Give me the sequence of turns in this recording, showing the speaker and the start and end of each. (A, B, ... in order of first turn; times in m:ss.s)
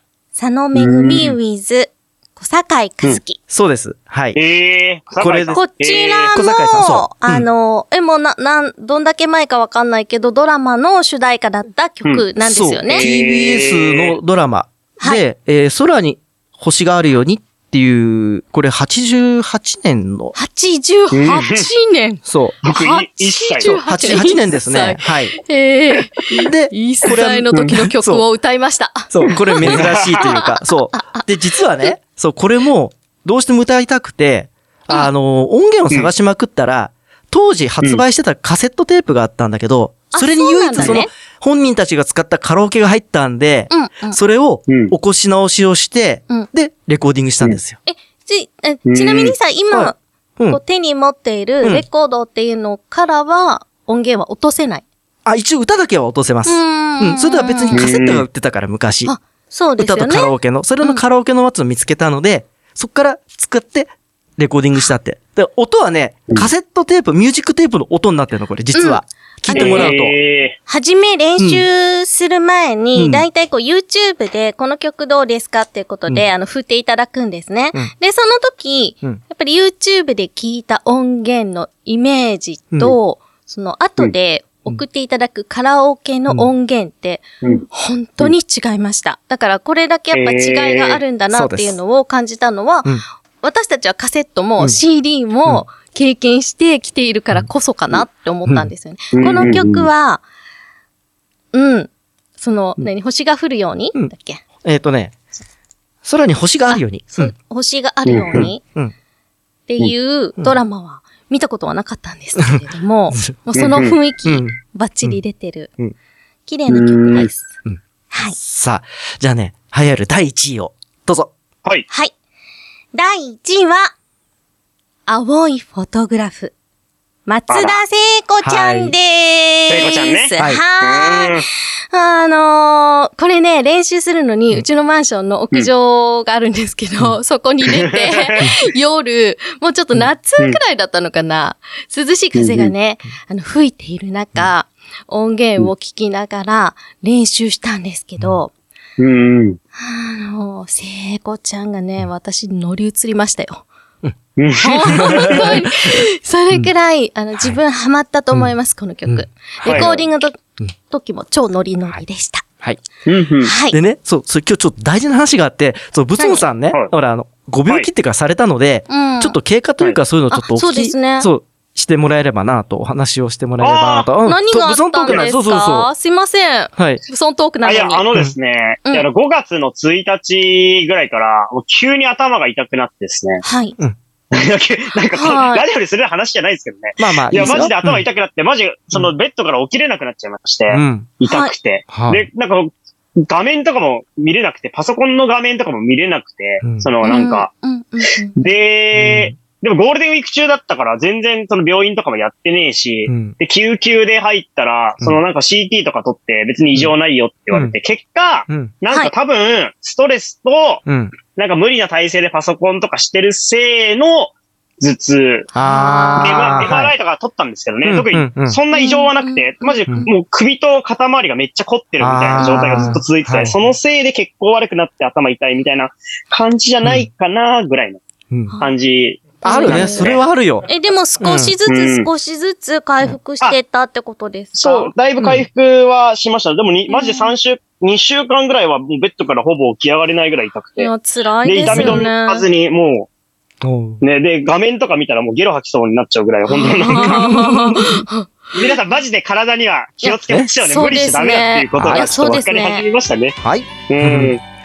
0:00.4-0:03.4 A
0:00.8-0:01.3 B
0:03.5-0:04.4 C
0:04.3-0:06.3 B
0:05.2-0:05.6 C
0:05.5-0:13.0 A
0:06.3-0:07.5 C
0:12.4-0:20.3 C
0:12.9-0:14.2 B
0:20.3-0:31.9 A
0:21.1-0:21.7 B
0:22.2-0:22.6 C
0:22.6-0:24.2 B
0:23.7-0:25.4 C
0:26.3-0:28.2 C
0:29.1-0:47.8 C
0:29.6-0:30.2 B
0:40.1-0:41.1 A
0:43.7-0:44.2 A
0:44.7-0:44.9 B
0:47.9-0:50.0 A
0:48.9-0:49.3 B
0:49.7-0:50.6 C
0:50.5-0:54.8 A
0:55.2-0:59.1 C
0:56.4-0:57.9 A
0:57.7-0:58.2 B
0:59.0-1:01.0 A
0:59.8-1:10.1 C
1:08.8-1:10.0 A
1:09.5-1:10.6 B
1:10.7-1:40.2 A
1:11.4-1:11.6 C
1:13.0-1:13.2 C
1:30.1-1:31.0 B
1:31.3-1:31.8 C
1:39.1-1:39.9 B
1:41.5-1:44.4 A
1:44.6-1:45.1 C
1:46.0-1:47.3 C
1:46.7-1:48.6 A
1:48.1-1:48.5 B
1:49.7-1:55.7 A
1:53.1-1:53.4 C
1:53.5-1:54.0 B
1:54.2-1:55.2 C
1:56.5-1:57.5 A
1:56.7-1:57.3 B
1:58.1-1:58.4 A
1:58.3-2:01.3 C
2:02.9-2:03.9 A
2:05.1-2:06.5 A
2:07.2-2:28.5 A
2:07.5-2:07.8 B
2:08.4-2:08.9 C
2:09.7-2:11.4 B
2:17.6-2:18.5 B
2:22.3-2:22.7 B
2:29.0-2:29.6 B
2:29.8-2:33.6 A
2:34.4-2:35.4 B
2:34.6-2:42.5 A
2:34.9-2:35.9 C
2:39.1-2:39.9 C
2:39.6-2:40.0 B
2:43.0-2:43.5 B
2:43.4-2:43.8 A
2:43.7-2:55.9 C
2:46.2-2:46.5 A
2:48.9-2:49.4 A
2:50.3-2:51.3 A
2:53.6-2:54.1 B
2:54.2-2:58.0 A
2:56.8-2:57.0 C
2:57.6-3:03.4 B
3:03.4-3:03.8 A
3:04.3-3:17.5 B
3:05.1-3:05.6 A
3:07.0-3:08.0 C
3:10.7-3:11.1 C
3:11.2-3:11.5 A
3:11.9-3:12.2 C
3:16.6-3:16.9 C
3:17.0-3:18.4 A
3:18.3-3:30.8 B
3:19.0-3:19.4 C
3:23.1-3:23.3 C
3:30.8-3:31.1 C
3:31.3-3:35.5 B
3:35.5-3:36.9 C
3:35.6-3:36.6 A
3:36.2-3:48.0 B
3:37.8-3:38.6 C
3:38.7-3:40.1 A
3:42.0-3:43.5 C
3:42.4-3:43.0 A
3:48.3-3:48.6 C
3:48.6-3:50.2 B
3:49.4-3:50.7 C
3:49.4-3:50.1 A
3:50.7-3:54.9 A
3:51.2-3:51.5 C
3:51.7-3:52.1 B
3:54.6-4:00.9 B
3:55.2-3:55.4 C
3:56.9-3:57.3 A
4:00.8-4:02.5 A
4:01.4-4:03.1 B
4:01.7-4:02.0 C
4:03.6-4:04.0 C
4:04.0-4:07.4 B
4:06.5-4:08.8 A
4:06.9-4:08.0 C
4:08.5-4:13.4 B
4:10.0-4:12.8 A
4:11.8-4:12.0 C
4:13.4-4:14.3 C
4:13.9-4:14.4 B